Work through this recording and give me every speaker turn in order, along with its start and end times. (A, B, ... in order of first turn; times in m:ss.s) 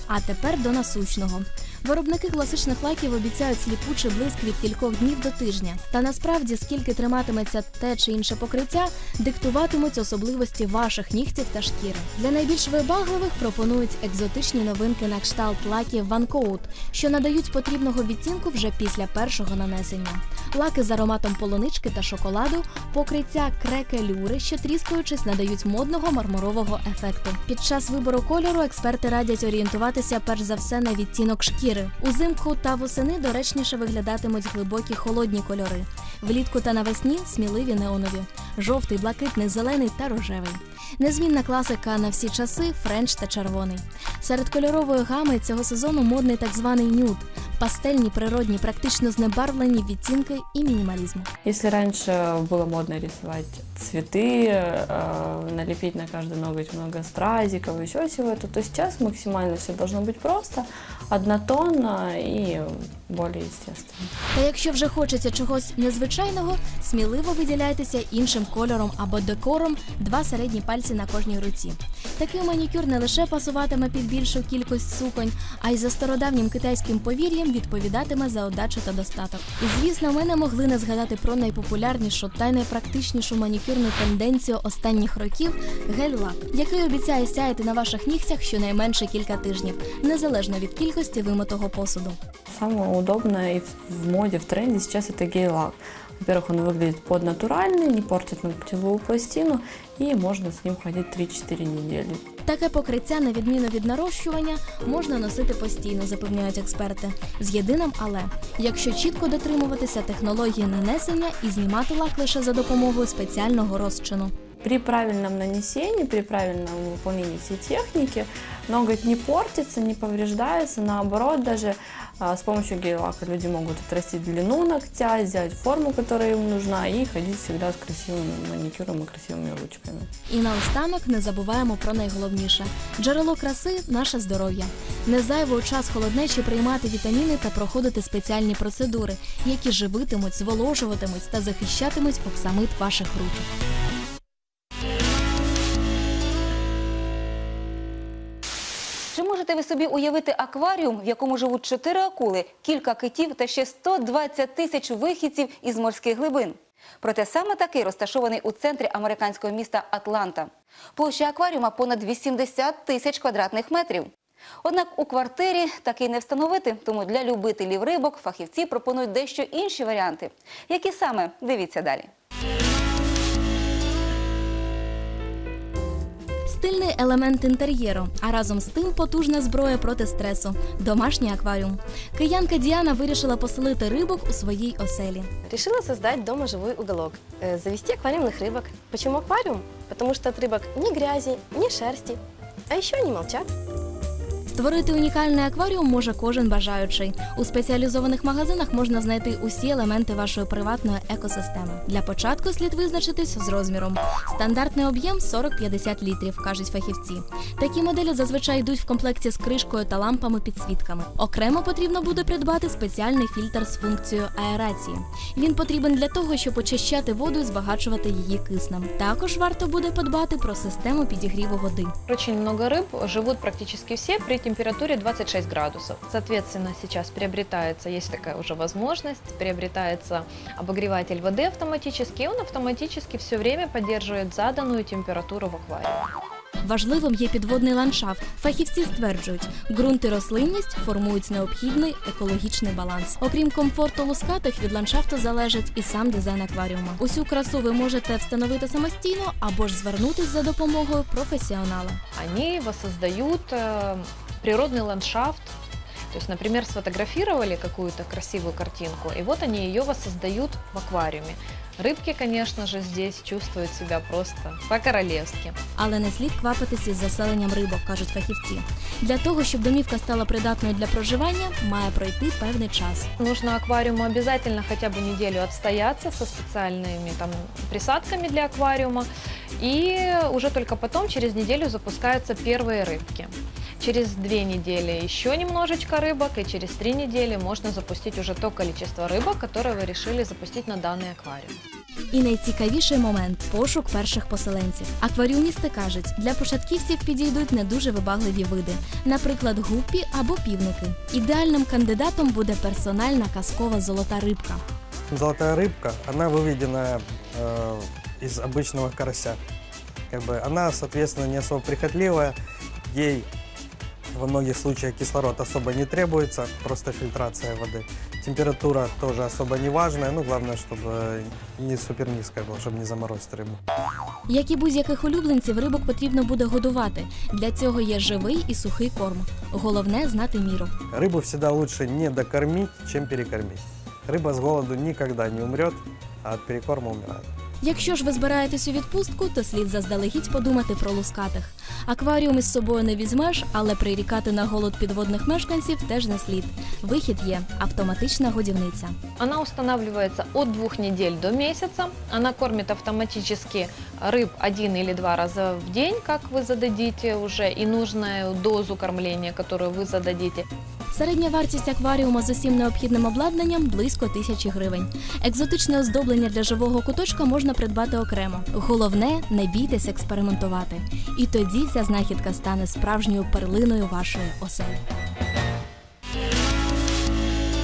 0:00.1-0:51.3 A
0:51.4-1:04.1 B
1:04.3-1:32.2 A
1:32.5-1:42.2 B
1:42.4-1:54.3 A
1:54.6-2:10.1 B
2:10.3-2:23.5 A
2:29.1-2:44.1 C
2:44.6-2:52.1 C
2:56.4-3:05.3 A
3:05.5-3:13.4 D
3:14.5-3:41.9 A
3:42.1-3:56.1 E
3:56.6-4:12.0 A
4:12.1-4:15.5 E
4:16.1-4:25.6 E
4:25.8-4:33.1 A
4:33.2-4:51.6 E
4:52.1-5:04.6 A
5:05.1-5:09.4 F
5:10.1-5:12.3 F
5:12.9-5:13.3 F
5:14.1-5:23.6 F
5:24.3-5:30.7 A
5:30.9-5:37.3 F
5:37.6-5:49.0 A
5:49.2-6:00.4 E
6:00.9-6:14.8 A